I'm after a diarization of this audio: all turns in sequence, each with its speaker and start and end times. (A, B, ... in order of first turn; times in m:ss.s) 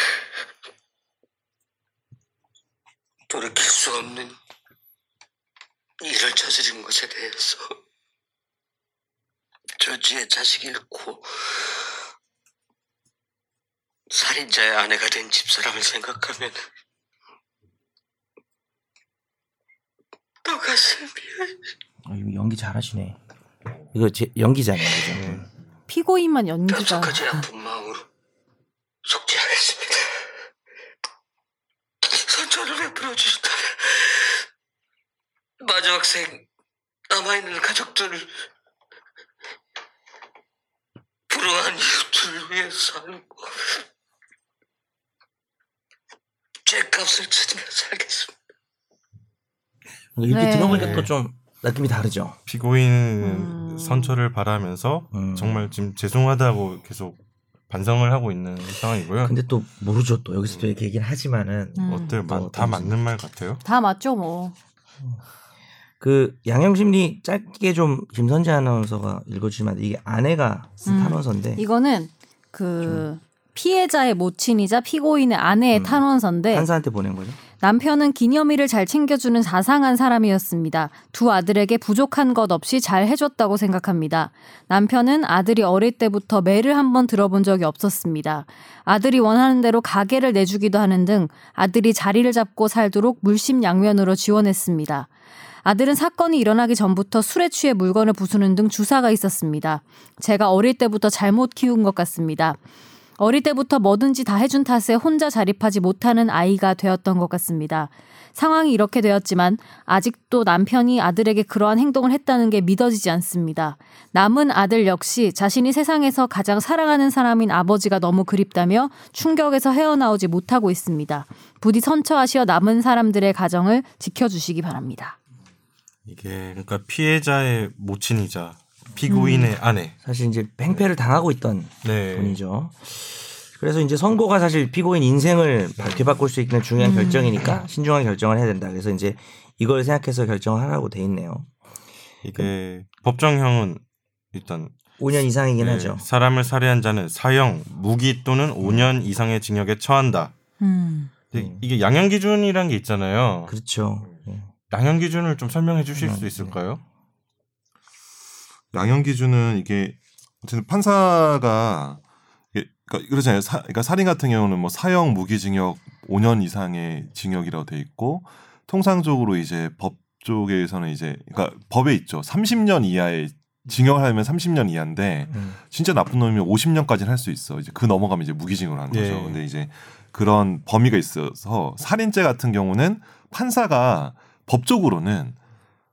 0:03.3-0:04.4 A
0:06.0-0:07.8 A
0:09.8-0:11.6 A
0:14.1-0:16.6 A
0:20.4-0:21.6 A
0:22.0-0:23.2 B
0:23.9-0:25.4 B
0:25.2-0:25.4 C
0:25.9-0:27.4 D
0:26.7-0:28.0 A
0:29.0-0:30.1 A
0:32.1-0:34.3 A
0:35.6-0:36.4 A
0:37.1-0:38.3 A
0:41.3-0:43.7 A
0:46.6-0:48.3 A
0:50.2-0:52.4 B
0:50.3-0:51.0 D
0:50.7-0:51.1 C
0:52.5-0:57.2 C
0:53.2-0:54.1 D
0:55.1-0:55.7 B
0:57.7-0:59.3 C
0:59.2-1:03.0 B
1:01.8-1:02.2 D
1:01.8-1:03.6 C
1:03.6-1:04.5 D
1:06.0-1:11.6 B
1:10.8-1:16.7 D
1:15.7-1:17.4 B
1:17.6-1:35.1 D
1:35.6-1:42.6 D
1:43.2-2:05.2 D
2:06.1-2:09.9 C
2:09.1-2:09.5 D
2:10.0-2:21.5 B
2:11.8-2:12.4 C
2:15.8-2:16.1 C
2:16.8-2:17.4 D
2:22.2-2:23.8 C
2:24.3-2:24.7 C
2:25.0-2:26.0 B
2:25.6-2:30.3 C
2:28.6-2:28.9 B
2:30.6-2:31.1 D
2:31.3-2:33.5 C
2:31.3-2:31.6 B
2:33.5-2:34.5 B
2:34.7-2:36.8 C
2:35.9-2:36.5 B
2:38.7-2:42.0 E
2:42.5-3:05.4 E
2:58.9-2:59.4 C